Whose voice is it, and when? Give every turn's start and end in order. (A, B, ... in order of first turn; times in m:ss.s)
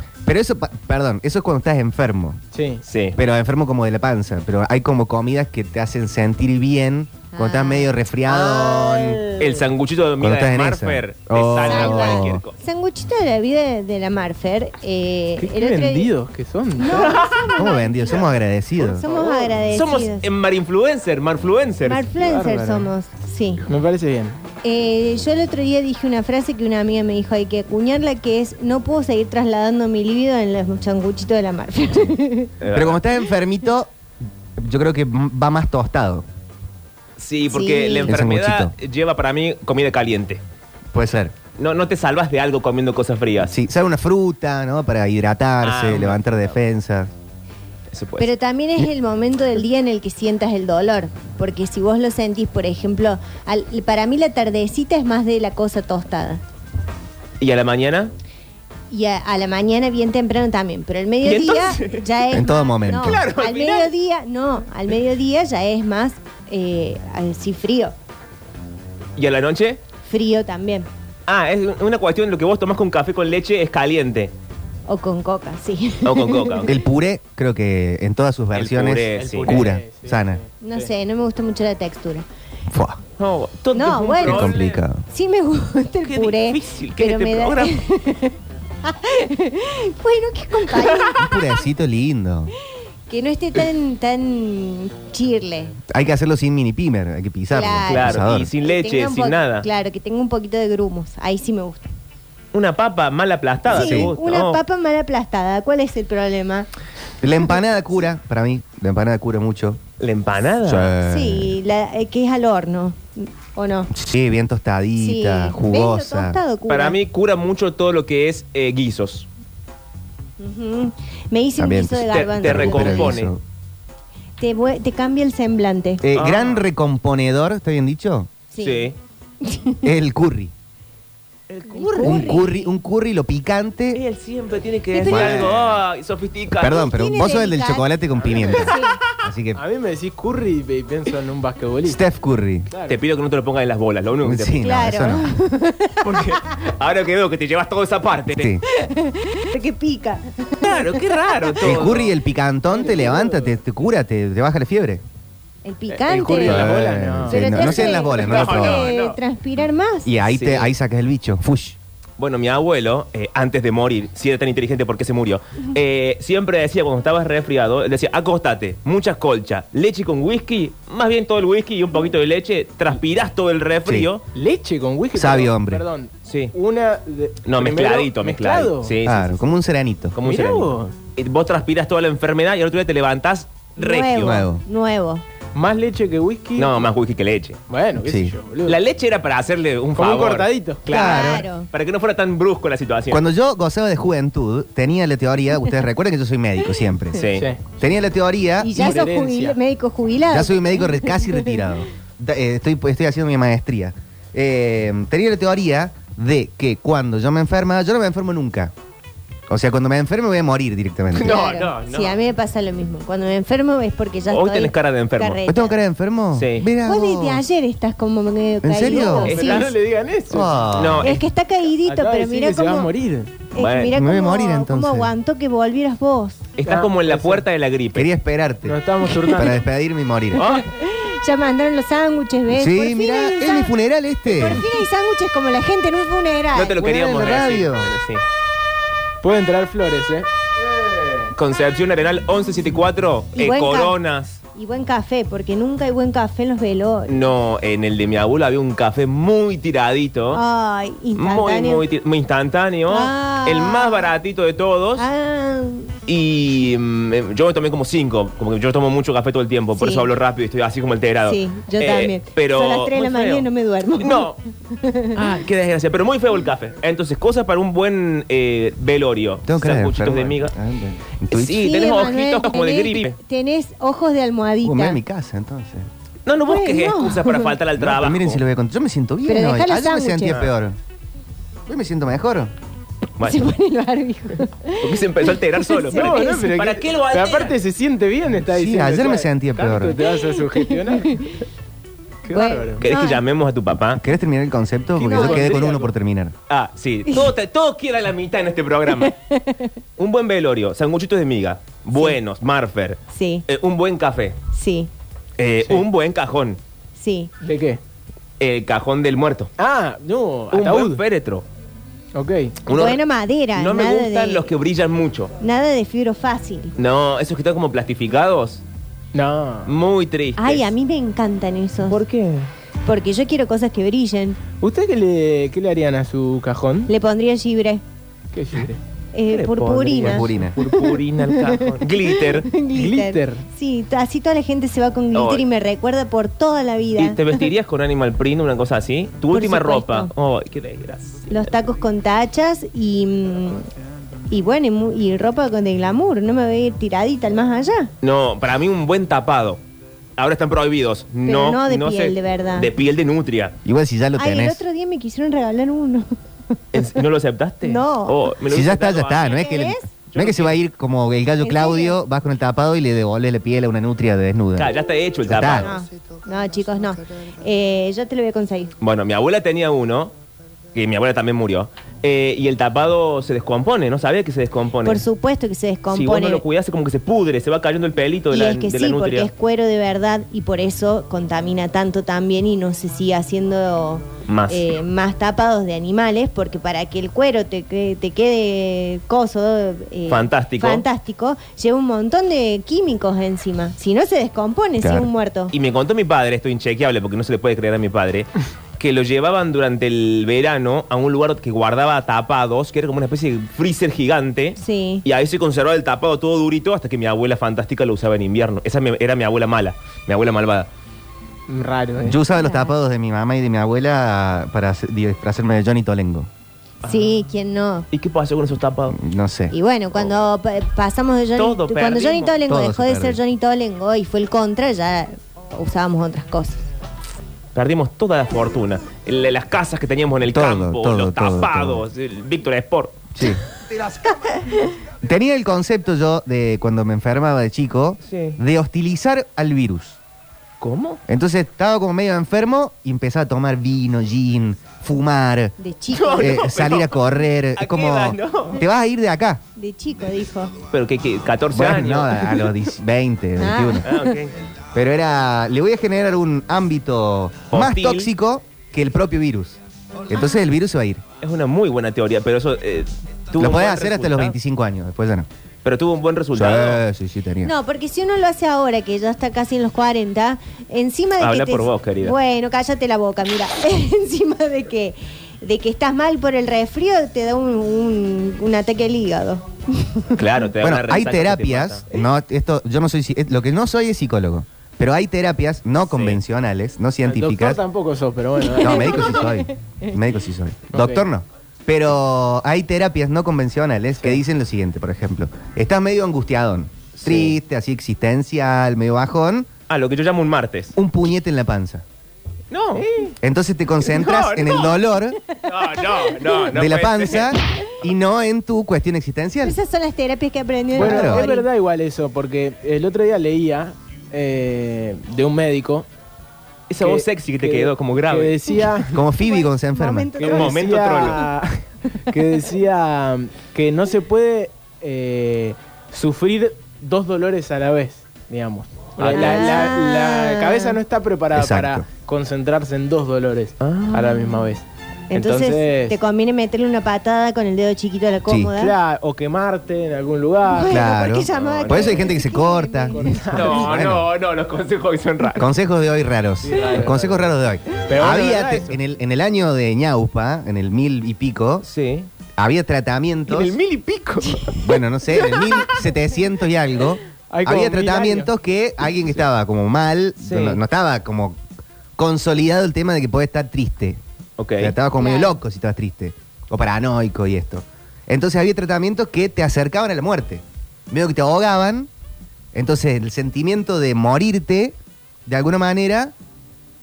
0:00.2-0:02.4 A
0:02.5-0:02.8 B
0:02.9-0:03.2 C
0:03.1-0:09.3 A
0:07.3-0:08.0 D
0:08.3-0:09.6 B
0:09.4-0:12.6 C
0:10.2-0:12.4 A
0:11.6-0:16.1 D
0:15.4-0:17.1 B
0:16.8-0:20.2 D
0:16.9-0:17.4 C
0:17.5-0:19.0 A
0:19.0-0:22.1 C
0:21.8-0:23.6 D
0:22.2-0:22.9 B
0:23.7-0:24.4 B
0:24.6-0:32.5 D
0:32.6-0:33.0 C
0:32.7-0:33.9 A
0:34.6-0:36.2 A
0:37.2-0:40.4 C
0:37.5-0:38.1 D
0:38.0-0:38.7 A
0:40.9-0:41.3 A
0:41.6-0:43.5 C
0:43.5-0:47.1 A
0:45.6-0:46.5 C
0:47.9-0:48.3 C
0:48.2-0:56.4 D
0:57.4-0:58.1 C
0:58.9-1:07.9 D
1:01.2-1:02.0 C
1:02.3-1:03.2 A
1:02.8-1:03.9 C
1:09.2-1:09.8 C
1:10.0-1:10.9 D
1:11.3-1:14.3 C
1:14.9-1:16.7 D
1:16.0-1:16.7 C
1:16.6-1:20.4 A
1:18.5-1:19.7 C
1:19.1-1:20.9 B
1:20.6-1:22.2 D
1:22.7-1:23.0 A
1:23.2-1:24.8 C
1:23.7-1:24.5 D
1:24.2-1:25.0 A
1:25.1-1:31.6 D
1:26.0-1:27.8 C
1:30.7-1:31.1 C
1:31.1-1:32.5 A
1:33.1-1:35.8 D
1:35.9-1:38.5 A
1:37.5-1:41.9 D
1:37.8-1:39.6 C
1:42.5-1:44.6 C
1:43.7-1:46.7 D
1:43.7-1:44.1 A
1:47.2-1:49.8 A
1:50.0-1:50.9 C
1:50.6-1:51.6 A
1:51.0-1:53.9 D
1:53.9-1:56.4 A
1:55.0-1:57.0 D
1:56.7-1:59.3 C
2:00.4-2:03.2 D
2:01.6-2:03.4 A
2:02.1-2:03.3 C
2:04.4-2:06.0 D
2:06.0-2:08.3 A
2:06.1-2:06.6 C
2:08.5-2:08.9 D
2:08.6-2:09.0 C
2:09.4-2:09.8 D
2:09.8-2:10.5 A
2:11.5-2:12.5 C
2:11.7-2:12.7 D
2:12.0-2:14.0 A
2:13.9-2:16.8 C
2:14.9-2:15.4 D
2:15.0-2:15.8 A
2:16.6-2:19.6 A
2:16.7-2:17.9 D
2:18.2-2:18.7 B
2:18.5-2:19.0 D
2:19.5-2:22.0 B
2:21.8-2:22.6 A
2:22.7-2:23.0 B
2:22.8-2:24.7 C
2:24.2-2:25.3 A
2:24.6-2:26.3 D
2:26.0-2:28.5 C
2:28.3-2:28.6 A
2:28.7-2:31.0 D
2:30.6-2:32.1 C
2:31.6-2:35.0 A
2:32.7-2:33.6 B
2:35.6-2:36.7 D
2:35.9-2:38.0 B
2:36.4-2:38.9 A
2:37.3-2:40.1 D
2:37.8-2:39.2 C
2:40.0-2:41.8 A
2:40.3-2:40.7 C
2:42.2-2:54.2 C
2:54.3-2:59.0 B
2:55.1-2:55.8 A
2:56.2-2:56.5 C
2:57.4-2:59.4 C
2:59.0-3:00.2 A
3:00.1-3:04.4 C
3:00.2-3:00.9 B
3:03.8-3:05.2 D
3:04.2-3:04.6 A
3:05.5-3:06.9 B
3:06.6-3:07.6 C
3:07.7-3:08.8 B
3:08.0-3:08.3 A
3:08.6-3:13.2 C
3:09.9-3:10.9 B
3:10.9-3:11.4 A
3:10.9-3:11.7 D
3:13.1-3:19.0 A
3:17.1-3:17.5 C
3:17.3-3:17.6 B
3:18.6-3:21.6 D
3:18.7-3:19.6 B
3:20.3-3:28.7 A
3:29.5-3:31.4 A
3:31.1-3:32.2 C
3:31.2-3:35.8 D
3:34.3-3:35.4 C
3:35.5-3:37.4 A
3:36.3-3:36.7 C
3:36.8-3:39.7 D
3:38.6-3:39.3 A
3:38.9-3:39.8 C
3:39.0-3:40.7 B
3:40.3-3:41.2 A
3:40.7-3:41.2 C
3:41.0-3:42.9 D
3:41.8-3:43.3 B
3:43.5-3:46.4 D
3:43.6-3:43.9 C
3:43.9-3:45.1 A
3:46.6-3:48.1 C
3:46.6-3:47.4 B
3:47.9-3:50.4 A
3:48.6-3:49.6 B
3:50.3-3:50.7 C
3:50.4-3:53.7 D
3:52.5-3:54.6 A
3:54.3-3:56.9 D
3:56.5-3:58.2 C
3:56.8-3:57.9 A
3:59.2-4:00.3 B
4:01.3-4:04.4 C
4:03.4-4:04.0 D
4:04.5-4:07.1 D
4:07.1-4:10.4 C
4:10.3-4:11.8 D
4:11.1-4:15.1 C
4:12.9-4:14.1 D
4:15.0-4:15.9 D
4:16.0-4:23.5 C
4:19.8-4:20.1 D
4:21.2-4:25.4 D
4:24.0-4:24.4 C
4:25.1-4:30.5 C
4:29.4-4:31.7 A
4:31.3-4:33.2 C
4:31.5-4:35.0 D
4:34.6-4:35.9 A
4:36.2-4:38.4 C
4:36.5-4:37.5 D
4:37.8-4:40.8 A
4:39.2-4:40.4 D
4:40.3-4:40.5 C
4:41.7-4:42.5 A
4:43.2-4:43.5 C
4:43.2-4:46.5 D
4:44.8-4:47.6 C
4:45.9-4:51.2 B
4:48.4-4:50.0 A
4:50.1-4:51.4 D
4:52.2-4:52.8 B
4:52.3-4:53.2 D
4:52.8-4:54.0 C
4:54.0-4:56.3 A
4:55.0-4:55.5 D
4:55.0-4:55.9 B
4:56.5-4:59.1 C
4:59.0-4:59.7 D
5:00.0-5:04.4 C
5:03.1-5:03.4 D
5:04.5-5:04.9 D
5:05.4-5:06.6 C
5:07.0-5:07.3 D
5:07.4-5:07.8 B
5:08.4-5:09.5 C
5:09.6-5:11.0 B
5:10.5-5:11.4 C
5:12.1-5:12.6 B
5:12.6-5:13.0 C
5:12.7-5:14.5 D
5:13.5-5:15.3 C
5:15.4-5:16.7 D
5:16.8-5:18.6 C
5:19.1-5:19.7 B
5:19.6-5:20.7 C
5:20.4-5:22.0 D
5:21.9-5:22.5 C
5:22.8-5:24.4 D
5:24.6-5:26.9 B
5:26.9-5:27.8 D
5:28.3-5:28.8 B
5:29.1-5:37.4 D
5:29.3-5:32.5 C
5:30.0-5:30.6 A
5:32.7-5:33.4 B
5:35.1-5:35.4 C
5:37.0-5:41.4 C
5:39.3-5:40.1 D
5:41.3-5:43.7 D
5:44.3-5:47.9 D
5:48.0-5:49.6 C
5:50.2-5:53.6 C
5:51.2-5:52.7 D
5:53.6-5:54.6 A
5:54.2-5:56.1 D
5:56.7-5:59.5 C
5:57.6-5:58.3 D
5:58.4-6:04.7 A
5:59.3-5:59.8 D
6:00.1-6:00.6 C
6:01.4-6:02.0 D
6:04.6-6:05.7 C
6:05.2-6:05.7 A
6:05.5-6:08.7 D
6:08.8-6:10.1 C
6:10.7-6:15.0 C
6:14.8-6:16.4 D
6:15.9-6:19.3 C
6:18.3-6:35.5 D
6:24.2-6:24.8 C
6:30.1-6:30.8 C
6:34.8-6:35.1 A
6:35.5-6:50.7 C
6:44.6-6:45.0 D
6:51.5-6:52.2 B
6:52.0-6:56.3 A
6:52.3-6:52.7 D
6:56.8-6:57.9 D
6:57.9-6:59.0 C
6:58.9-6:59.5 A
6:59.5-7:06.6 D
6:59.9-7:00.2 C
7:01.4-7:02.4 C
7:02.5-7:03.2 A
7:07.5-7:13.0 C
7:10.2-7:11.8 A
7:13.1-7:13.4 A
7:13.8-7:14.7 D
7:15.0-7:20.0 A
7:18.0-7:18.4 C
7:20.6-7:21.0 C
7:21.1-7:25.5 A
7:25.6-7:26.4 D
7:25.9-7:28.6 C
7:26.2-7:29.4 A
7:29.6-7:30.5 D
7:30.7-7:32.5 C
7:31.5-7:33.9 A
7:33.4-7:34.0 D
7:33.8-7:34.3 C
7:34.7-7:39.6 A
7:37.5-7:38.1 C
7:40.1-7:41.0 A
7:41.2-7:44.3 C
7:43.4-7:45.3 A
7:45.6-7:46.8 C
7:46.3-7:47.5 A
7:47.4-8:00.2 D
7:51.2-7:52.1 C
8:00.1-8:01.8 C
8:00.6-8:07.6 A
8:05.9-8:06.2 C
8:07.0-8:09.2 B
8:08.4-8:09.9 D
8:08.6-8:19.5 A
8:10.7-8:11.0 B
8:17.0-8:17.3 C
8:19.7-8:20.7 C
8:20.8-8:21.8 A
8:22.5-8:22.8 C
8:23.2-8:25.2 A
8:23.8-8:24.8 C
8:25.4-8:26.4 D
8:25.4-8:27.4 C
8:26.5-8:29.6 A
8:29.4-8:31.5 D
8:30.7-8:31.3 A
8:30.7-8:35.9 B
8:36.7-8:38.4 C
8:36.8-8:39.0 B
8:38.9-8:40.2 A
8:39.1-8:41.2 D
8:40.2-8:56.0 B
8:40.2-8:41.2 C
8:49.0-8:49.7 C
8:49.1-8:50.8 D
8:51.3-8:51.8 A
8:53.6-8:54.4 C
8:55.1-8:58.7 D
8:58.3-8:58.5 A
8:58.5-9:00.8 B
9:00.5-9:03.5 D
9:00.7-9:04.1 A
9:01.3-9:02.1 C
9:02.9-9:03.9 B
9:03.3-9:05.5 C
9:05.4-9:11.6 A
9:06.4-9:07.3 B
9:07.9-9:08.8 B
9:11.6-9:12.1 C
9:12.4-9:13.6 A
9:13.3-9:14.6 C
9:14.5-9:21.4 A
9:15.1-9:15.4 C
9:17.3-9:18.3 B
9:20.2-9:20.6 C
9:22.0-9:24.0 A
9:24.4-9:24.7 C
9:24.6-9:31.9 A
9:25.0-9:25.4 D
9:32.5-9:36.1 A